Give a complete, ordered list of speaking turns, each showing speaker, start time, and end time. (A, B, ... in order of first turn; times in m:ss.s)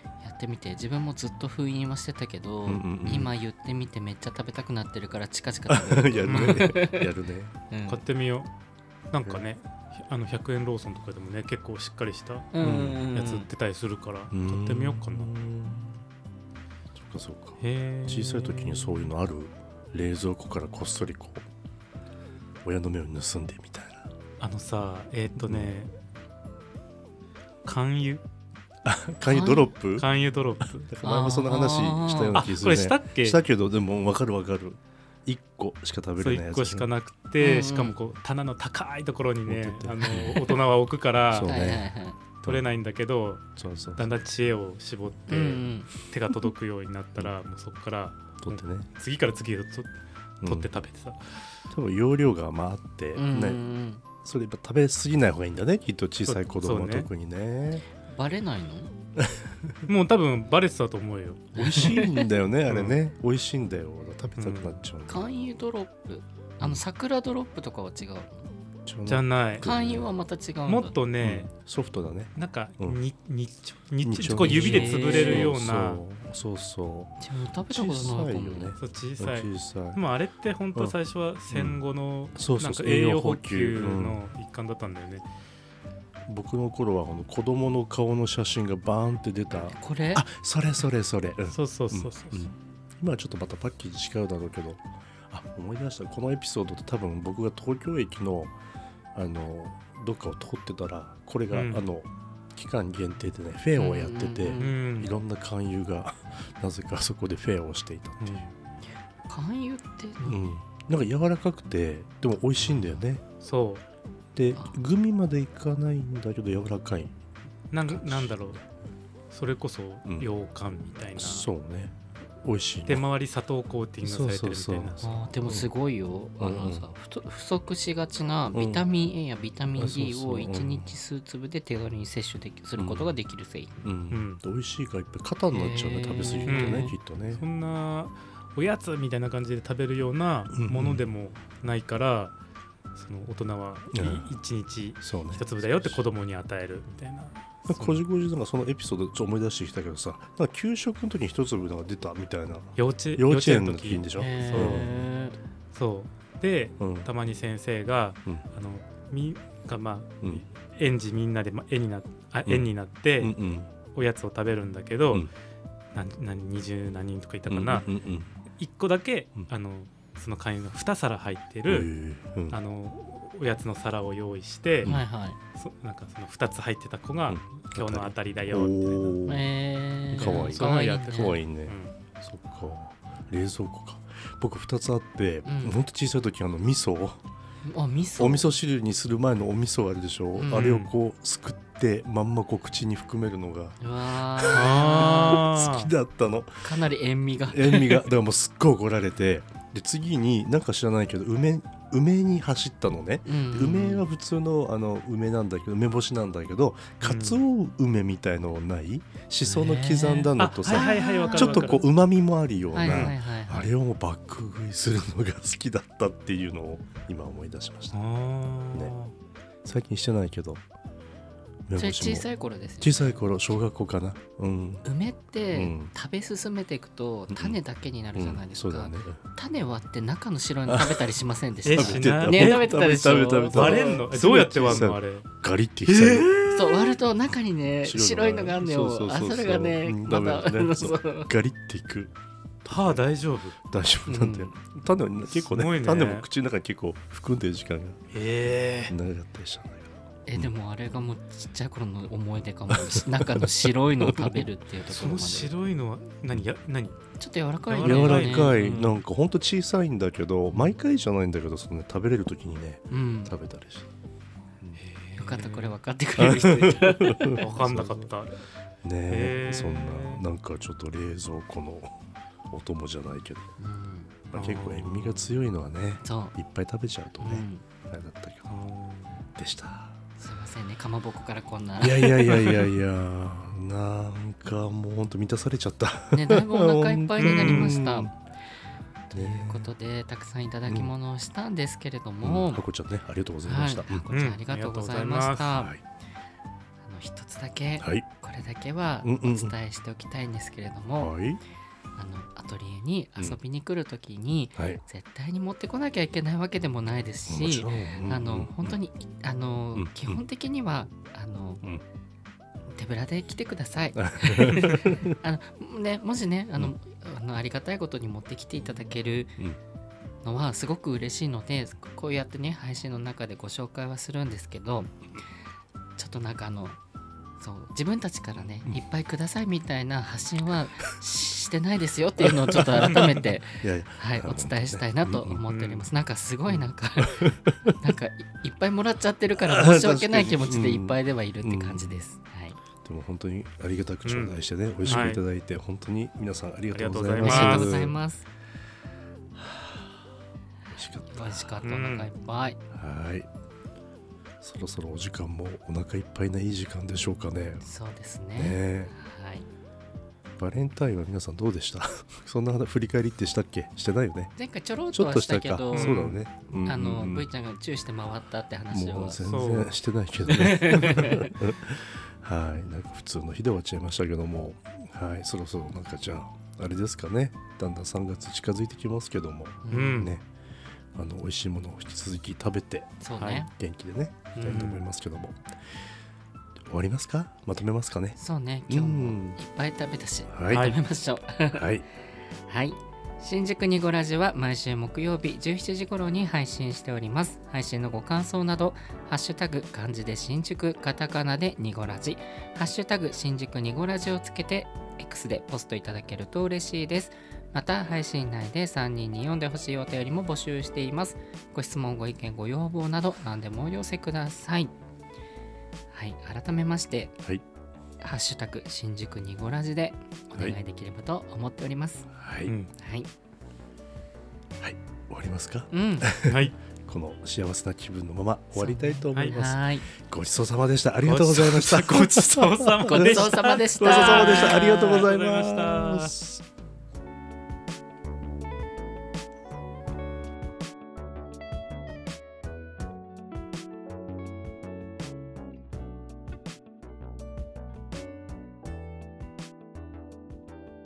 0:00.2-0:07.1 A
0:02.7-0:03.3 B
0:05.7-0:07.6 B
0:06.3-0:06.8 C
0:07.7-0:08.0 A
0:07.9-0:08.5 C
0:09.1-0:15.3 C
0:12.5-0:13.5 A
0:12.6-0:13.1 B
0:14.3-0:16.0 B
0:17.0-0:21.5 B
0:17.6-0:19.1 C
0:22.6-0:24.1 B
0:24.4-0:25.9 C
0:25.4-0:25.7 B
0:27.6-0:28.2 C
0:28.8-0:30.1 B
0:29.3-0:29.7 A
0:30.0-0:30.9 C
0:30.9-0:36.9 B
0:31.0-0:32.4 A
0:32.4-0:33.4 C
0:36.2-0:41.5 C
0:37.4-0:38.0 A
0:39.5-0:40.6 B
0:41.3-0:42.6 B
0:41.4-0:42.2 A
0:42.4-0:51.5 C
0:43.6-0:44.1 B
0:45.3-0:45.9 A
0:48.4-0:48.9 B
0:50.4-0:50.7 B
0:51.7-0:53.6 B
0:53.2-0:54.0 A
0:54.2-0:57.8 B
0:56.2-0:57.1 C
0:58.1-0:58.9 A
0:59.2-0:59.8 B
0:59.9-1:02.0 C
1:01.5-1:02.3 A
1:01.6-1:05.3 B
1:02.7-1:03.0 C
1:04.4-1:04.8 C
1:05.1-1:08.5 A
1:08.9-1:10.1 B
1:09.1-1:09.6 C
1:09.6-1:11.0 A
1:10.7-1:11.5 C
1:11.2-1:13.0 B
1:12.4-1:16.0 C
1:14.0-1:17.1 B
1:14.4-1:15.5 A
1:17.2-1:18.8 A
1:17.6-1:20.0 B
1:18.8-1:25.3 C
1:21.5-1:21.8 B
1:22.4-1:24.2 B
1:26.3-1:38.6 B
1:29.5-1:30.2 A
1:31.5-1:32.5 C
1:39.1-1:48.4 B
1:41.5-1:41.8 C
1:43.8-1:44.8 A
1:44.6-1:45.1 C
1:48.2-1:48.5 C
1:49.3-1:50.4 A
1:50.2-1:53.2 B
1:53.4-1:53.8 C
1:54.4-1:57.2 B
1:57.7-1:58.6 C
1:57.8-1:58.5 B
1:59.3-2:01.5 C
2:01.2-2:03.1 B
2:02.9-2:05.3 C
2:04.0-2:05.7 B
2:05.0-2:13.9 A
2:06.4-2:06.9 B
2:08.5-2:08.9 B
2:09.7-2:11.0 B
2:12.8-2:13.1 B
2:13.8-2:17.4 B
2:14.1-2:14.4 C
2:15.5-2:16.9 A
2:16.5-2:22.4 C
2:20.5-2:21.1 B
2:23.0-2:28.0 C
2:23.9-2:24.3 B
2:25.0-2:26.0 B
2:27.7-2:34.9 B
2:32.8-2:34.9 C
2:34.2-2:35.4 A
2:35.7-2:43.4 C
2:36.8-2:37.1 B
2:43.2-2:43.7 B
2:43.9-2:45.3 C
2:45.9-2:47.9 C
2:47.5-2:48.3 B
2:48.6-2:51.9 C
2:51.7-2:52.6 B
2:52.5-2:55.0 C
2:54.8-2:55.4 A
2:55.6-2:59.2 C
2:57.3-2:59.5 B
2:59.3-3:01.4 A
3:00.1-3:07.2 B
3:00.2-3:02.0 C
3:05.5-3:05.8 A
3:07.6-3:08.5 A
3:08.2-3:13.8 B
3:10.4-3:10.8 A
3:10.5-3:10.9 C
3:13.8-3:15.4 A
3:14.3-3:16.7 B
3:14.5-3:15.9 C
3:16.6-3:18.1 A
3:17.5-3:38.0 B
3:23.3-3:24.1 A
3:27.0-3:27.4 C
3:29.4-3:31.8 A
3:30.4-3:31.9 C
3:32.7-3:33.7 A
3:32.8-3:33.2 C
3:37.9-3:39.1 C
3:39.6-3:40.6 B
3:41.7-3:42.3 B
3:41.8-3:43.2 A
3:42.8-3:44.9 B
3:44.8-3:54.9 A
3:45.5-3:45.9 B
3:47.3-3:47.6 B
3:48.2-3:49.2 B
3:50.7-3:51.2 B
3:51.7-3:52.8 C
3:51.7-3:56.5 B
3:53.5-3:55.3 C
3:55.9-3:57.0 C
3:56.5-4:01.3 A
3:57.8-4:02.1 B
4:02.6-4:02.9 B
4:02.7-4:04.5 C
4:03.6-4:08.0 B
4:05.3-4:06.3 C
4:08.1-4:09.0 C
4:08.9-4:10.5 B
4:10.3-4:15.5 A
4:12.7-4:14.5 B
4:14.9-4:17.0 C
4:17.2-4:19.0 A
4:17.7-4:18.6 C
4:17.8-4:23.9 B
4:22.9-4:23.4 A
4:24.8-4:25.8 C
4:25.2-4:27.4 A
4:26.2-4:28.1 B
4:27.4-4:28.4 C
4:28.8-4:31.9 B
4:29.1-4:30.2 C
4:32.5-4:33.5 B
4:33.6-4:34.1 A
4:34.3-4:38.6 B
4:34.3-4:35.4 C
4:36.0-4:36.4 A
4:37.2-4:37.6 A
4:38.5-4:39.2 C
4:39.4-4:40.0 B
4:40.2-4:42.7 A
4:41.8-4:48.1 B
4:46.1-4:48.2 A
4:47.2-4:47.8 C
4:49.1-4:52.6 A
4:49.1-4:49.7 B
4:52.2-4:54.0 B
4:53.4-4:55.8 A
4:54.1-4:55.6 C
4:55.5-4:55.8 B
4:56.8-5:01.2 A
4:57.8-4:58.1 B
4:59.0-4:59.6 B
5:01.0-5:01.4 B
5:02.0-5:11.6 A
5:04.6-5:04.8 B
5:07.3-5:08.8 B
5:09.7-5:10.2 B
5:12.7-5:19.4 A
5:14.0-5:15.2 B
5:20.2-5:25.0 A
5:26.0-5:26.8 A
5:27.4-5:42.6 A
5:32.2-5:35.4 B
5:32.9-5:33.2 C
5:35.5-5:35.9 C
5:36.5-5:37.9 B
5:39.4-5:42.0 B
5:42.8-5:48.0 B
5:44.0-5:45.2 C
5:44.8-5:45.1 A
5:46.7-5:47.9 C
5:47.2-5:48.3 A
5:49.4-5:49.8 B
5:50.7-5:51.6 B
5:51.1-5:52.6 A
5:51.6-5:52.1 C
5:52.7-5:53.3 B
5:54.4-5:57.6 B
5:57.6-5:59.5 A
5:58.4-5:58.9 B
6:00.4-6:04.3 B
6:04.4-6:09.2 A
6:04.9-6:07.3 B
6:05.7-6:06.2 C
6:08.7-6:20.3 B
6:09.2-6:09.7 C
6:10.3-6:11.3 A
6:19.6-6:20.1 A
6:19.7-6:20.1 C
6:20.9-6:25.4 B
6:23.0-6:23.5 A
6:23.2-6:23.4 C
6:24.4-6:24.6 A
6:24.4-6:24.9 C
6:26.7-6:28.2 B
6:28.2-6:31.7 A
6:28.7-6:29.4 B
6:30.3-6:30.7 B
6:30.5-6:30.8 C
6:31.5-6:31.8 B
6:32.5-6:54.7 A
6:55.9-6:57.2 A
6:58.0-7:02.1 A
7:02.2-7:02.6 B
7:02.5-7:02.7 C
7:02.8-7:03.1 A
7:04.6-7:16.4 B
7:05.7-7:06.1 A
7:06.3-7:06.6 C
7:08.6-7:09.9 A
7:11.0-7:16.2 C
7:12.8-7:14.7 A